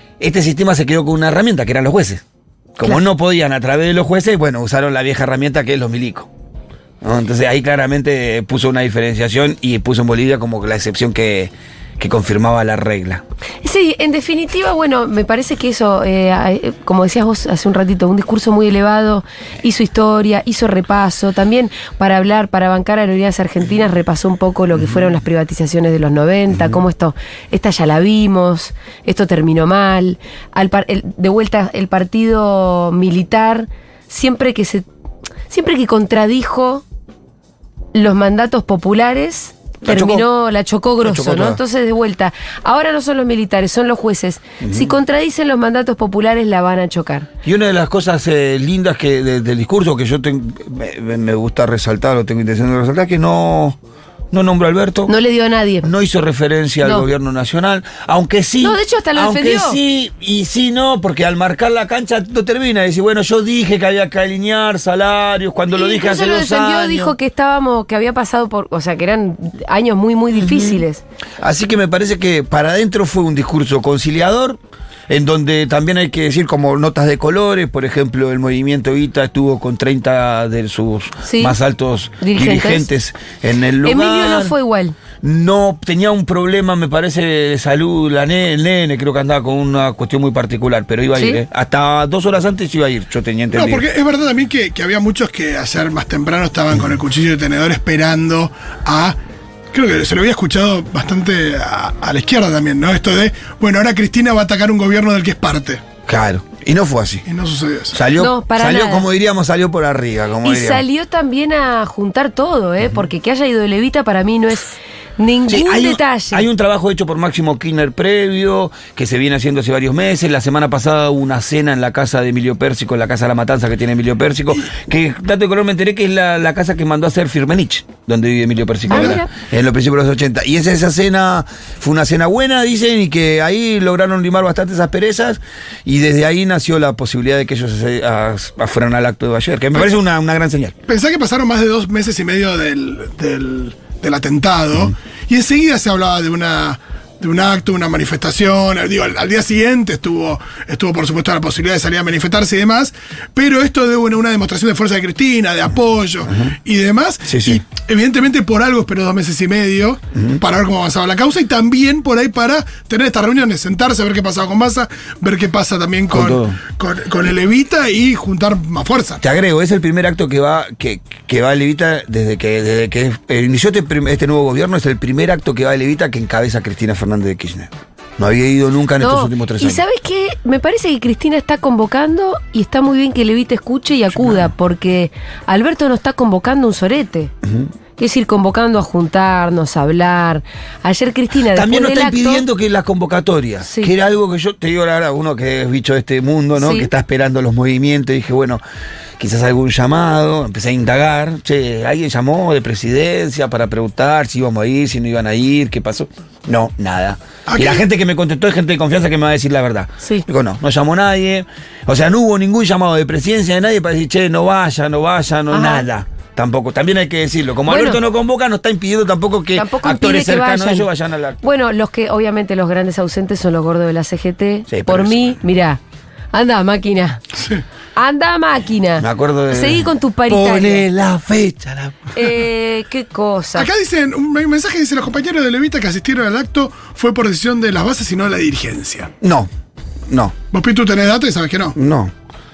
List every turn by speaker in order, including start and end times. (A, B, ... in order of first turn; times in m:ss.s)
0:00.2-0:02.2 A
0:02.8-0:06.3 A
0:07.0-0:13.2 A
0:13.6-0:34.9 B
0:35.5-0:36.8 B
0:37.9-0:47.3 B
0:39.8-0:40.3 A
0:41.0-0:41.6 A
0:44.6-0:44.9 A
0:47.4-0:53.8 A
0:54.3-0:55.1 A
0:55.1-0:55.9 B
0:55.8-1:07.2 A
0:58.6-0:59.8 B
1:05.7-1:11.0 B
1:10.4-1:10.8 A
1:11.4-1:24.6 A
1:21.2-1:21.6 B
1:22.2-1:22.9 B
1:23.8-1:25.0 B
1:25.2-1:33.9 A
1:31.2-1:31.4 B
1:33.5-1:39.2 C
1:39.7-1:45.8 C
1:46.1-1:47.2 A
1:47.3-1:48.0 C
1:47.9-1:50.8 A
1:48.2-1:49.1 B
1:50.4-1:56.4 B
1:55.5-2:20.8 A
2:08.9-2:09.3 B
2:08.9-2:09.2 C
2:20.9-2:49.2 C
2:37.3-2:37.6 A
2:40.2-2:40.4 A
2:46.1-2:46.6 A
2:49.2-2:59.8 A
2:59.0-3:07.3 B
3:07.4-3:07.7 A
3:08.0-3:12.4 B
3:11.5-3:18.6 A
3:13.6-3:13.9 B
3:16.6-3:16.9 B
3:19.2-3:41.4 A
3:27.5-3:27.8 C
3:35.5-3:35.9 B
3:37.7-3:38.0 B
3:39.6-3:40.9 B
3:41.4-3:45.8 B
3:44.7-3:45.4 A
3:46.3-3:47.2 B
3:47.4-3:47.6 C
3:48.0-3:50.9 B
3:49.0-3:52.3 A
3:52.1-3:53.7 B
3:53.6-3:59.1 C
3:59.2-3:59.5 A
4:00.1-4:00.4 A
4:00.5-4:01.8 C
4:01.8-4:02.1 A